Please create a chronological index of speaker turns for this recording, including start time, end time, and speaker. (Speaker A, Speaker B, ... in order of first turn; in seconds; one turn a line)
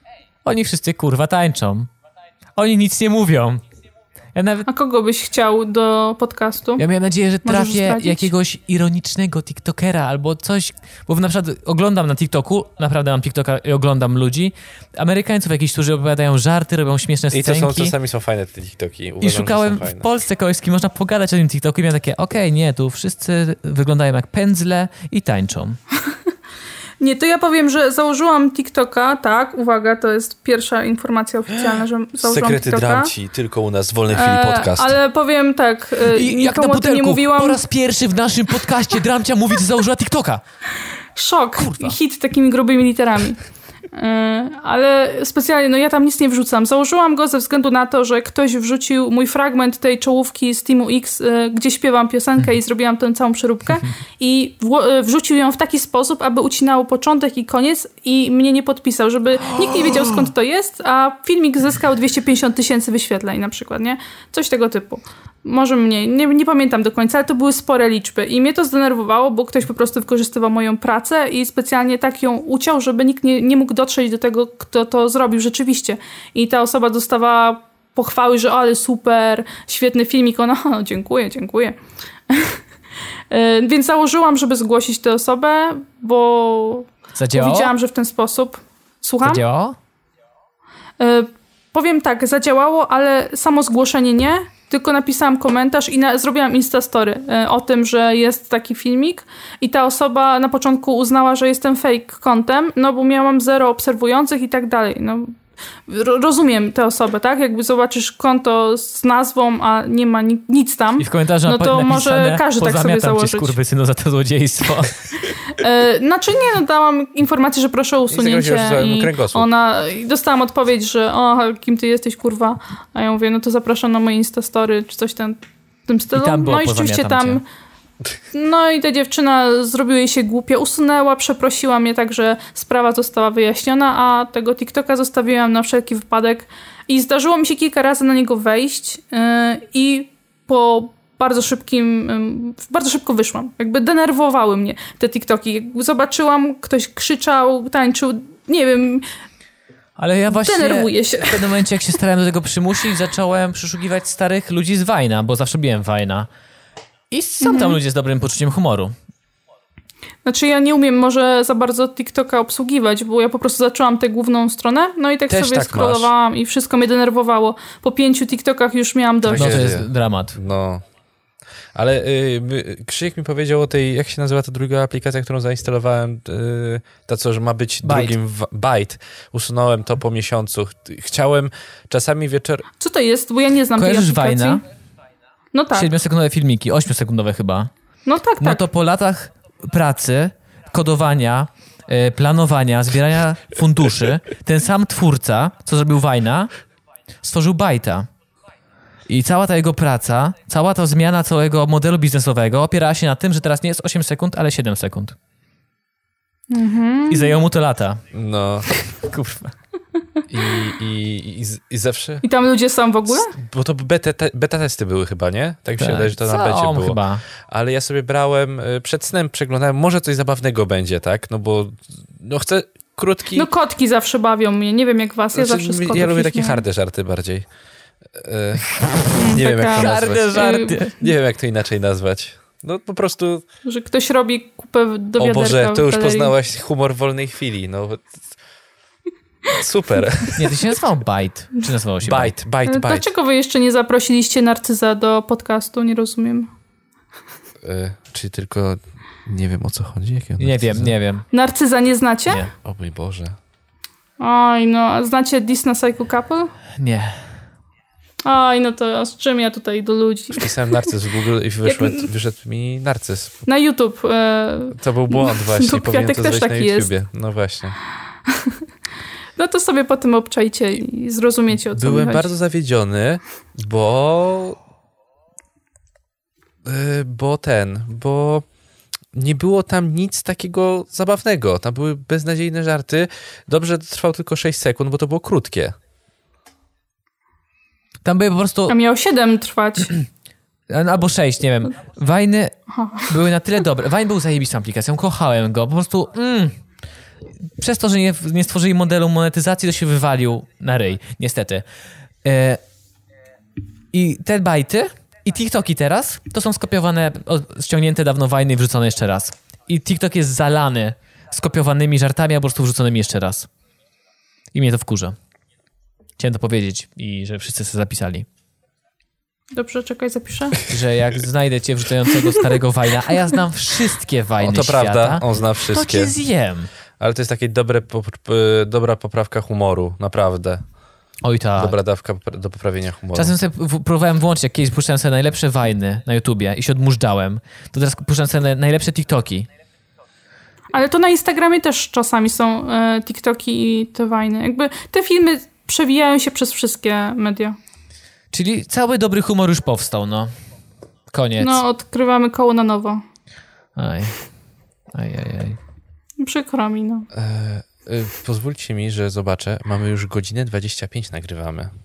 Speaker A: 0.4-1.9
Speaker A: 2.6-3.6
Speaker A: 4.3-4.7
Speaker B: 4.7-6.8
Speaker A: 6.8-17.9
Speaker B: 7.4-8.3
Speaker C: 17.3-20.1
Speaker A: 19.2-25.8
Speaker B: 27.0-33.1
Speaker C: 32.2-35.0
Speaker B: 34.1-37.6
Speaker A: 36.0-40.4
Speaker B: 41.1-81.8
Speaker A: 41.6-42.0
Speaker A: 59.5-60.0
Speaker B: 82.3-82.6
Speaker B: 83.3-89.4
Speaker A: 87.2-87.7
Speaker A: 89.2-89.8
Speaker B: 91.0-113.6
Speaker A: 111.0-115.1
Speaker B: 115.5-127.4
Speaker C: 118.1-119.5
Speaker A: 126.1-127.4
Speaker B: 128.3-149.1
Speaker A: 150.0-156.3
Speaker B: 150.3-151.5
Speaker A: 157.1-158.9
Speaker B: 157.4-157.8
Speaker B: 160.2-169.7
Speaker C: 165.3-166.1
Speaker C: 169.2-170.8
Speaker A: 169.3-170.4
Speaker C: 171.8-182.7
Speaker A: 177.8-178.2
Speaker B: 182.8-184.6
Speaker A: 183.8-184.6
Speaker B: 185.5-185.9
Speaker A: 185.7-187.7
Speaker B: 188.1-188.6
Speaker A: 188.4-196.5
Speaker A: 197.2-198.1
Speaker A: 199.1-205.2
Speaker B: 206.5-207.4
Speaker A: 207.1-208.0
Speaker C: 208.1-208.7
Speaker A: 208.7-209.6
Speaker C: 210.3-212.2
Speaker B: 212.2-213.3
Speaker C: 213.3-223.5
Speaker A: 215.8-217.2
Speaker B: 223.3-226.6
Speaker C: 225.3-227.5
Speaker C: 228.2-233.4
Speaker B: 229.2-230.8
Speaker A: 229.3-231.0
Speaker B: 233.7-236.3
Speaker C: 235.2-238.2
Speaker C: 239.5-240.5
Speaker A: 240.3-242.3
Speaker C: 242.0-243.1
Speaker B: 242.7-246.5
Speaker C: 247.6-250.9
Speaker A: 250.4-251.2
Speaker B: 251.3-252.4
Speaker C: 252.6-253.4
Speaker B: 254.2-256.5
Speaker A: 256.8-257.3
Speaker B: 258.2-260.9
Speaker C: 260.3-263.4
Speaker B: 261.6-262.1
Speaker B: 263.4-266.9
Speaker C: 264.8-267.8
Speaker B: 268.3-268.6
Speaker B: 269.4-272.3
Speaker C: 271.7-274.6
Speaker C: 276.6-278.5
Speaker C: 279.1-285.8
Speaker A: 288.0-288.8
Speaker B: 288.7-290.0
Speaker A: 290.7-296.6
Speaker B: 292.7-293.1
Speaker A: 297.5-301.7
Speaker A: 302.2-302.6
Speaker A: 303.9-313.5
Speaker A: 314.5-315.2
Speaker A: 316.2-318.3
Speaker B: 319.5-320.6
Speaker A: 320.7-326.7
Speaker C: 324.4-326.1
Speaker C: 327.0-330.7
Speaker A: 331.2-331.8
Speaker C: 331.6-333.4
Speaker A: 333.1-339.5
Speaker B: 340.7-347.6
Speaker A: 348.3-350.3
Speaker A: 351.1-351.6
Speaker B: 351.4-353.0
Speaker A: 353.8-354.2
Speaker A: 354.9-355.6
Speaker B: 356.2-357.1
Speaker C: 357.1-361.7